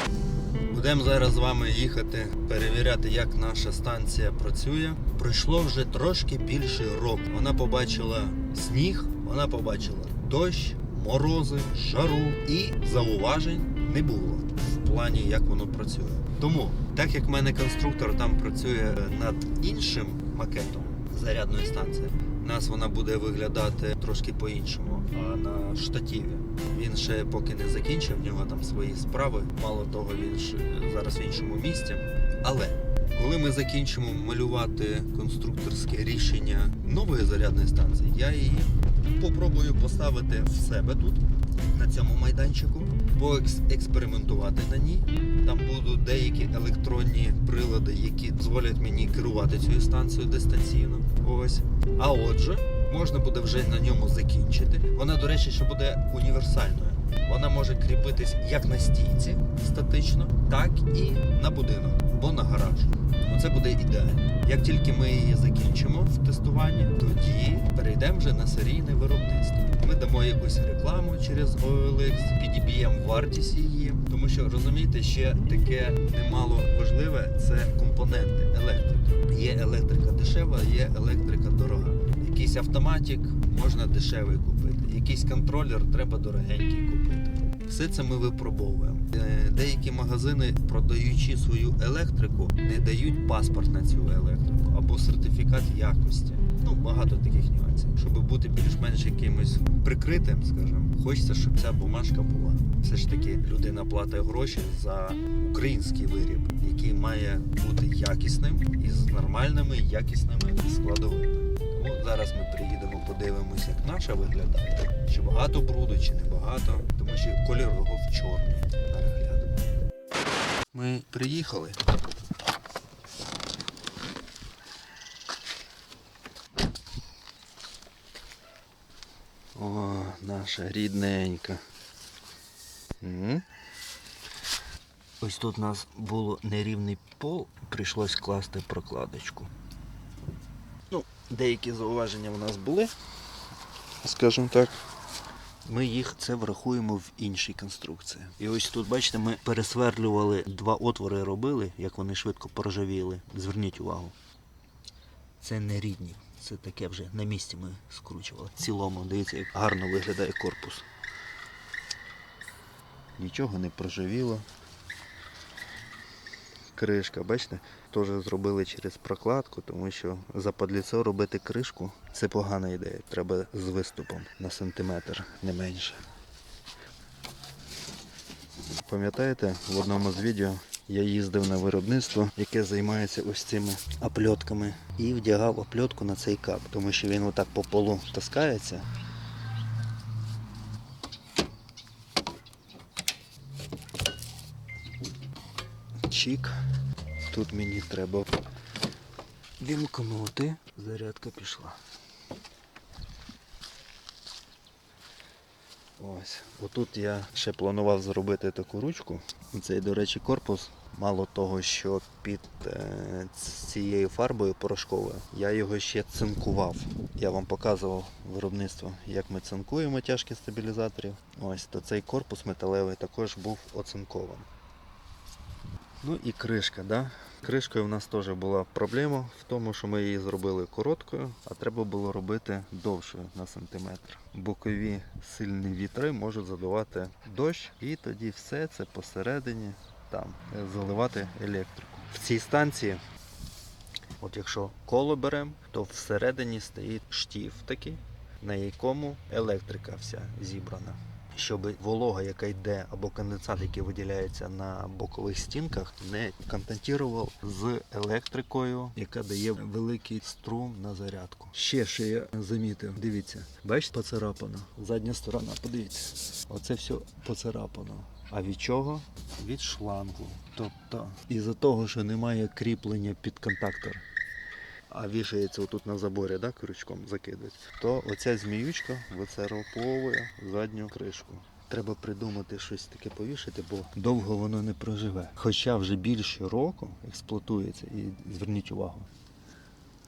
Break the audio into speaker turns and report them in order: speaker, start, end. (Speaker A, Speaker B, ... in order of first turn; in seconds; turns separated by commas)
Speaker A: 0.7-119.8, Speaker A: 120.7-121.8, Speaker A: 129.5-131.6, Speaker A: 133.0-133.4, Speaker A: 135.2-139.5, Speaker A: 140.9-142.9, Speaker A: 144.0-144.8, Speaker A: 145.6-154.1, Speaker A: 155.4-160.8, Speaker A: 163.2-164.4, Speaker A: 166.7-176.0, Speaker A: 178.8-188.9, Speaker A: 196.1-196.5, Speaker A: 197.3-198.3, Speaker A: 199.6-201.8, Speaker A: 206.0-224.5, Speaker A: 226.0-243.0, Speaker A: 244.2-274.0, Speaker A: 274.9-289.1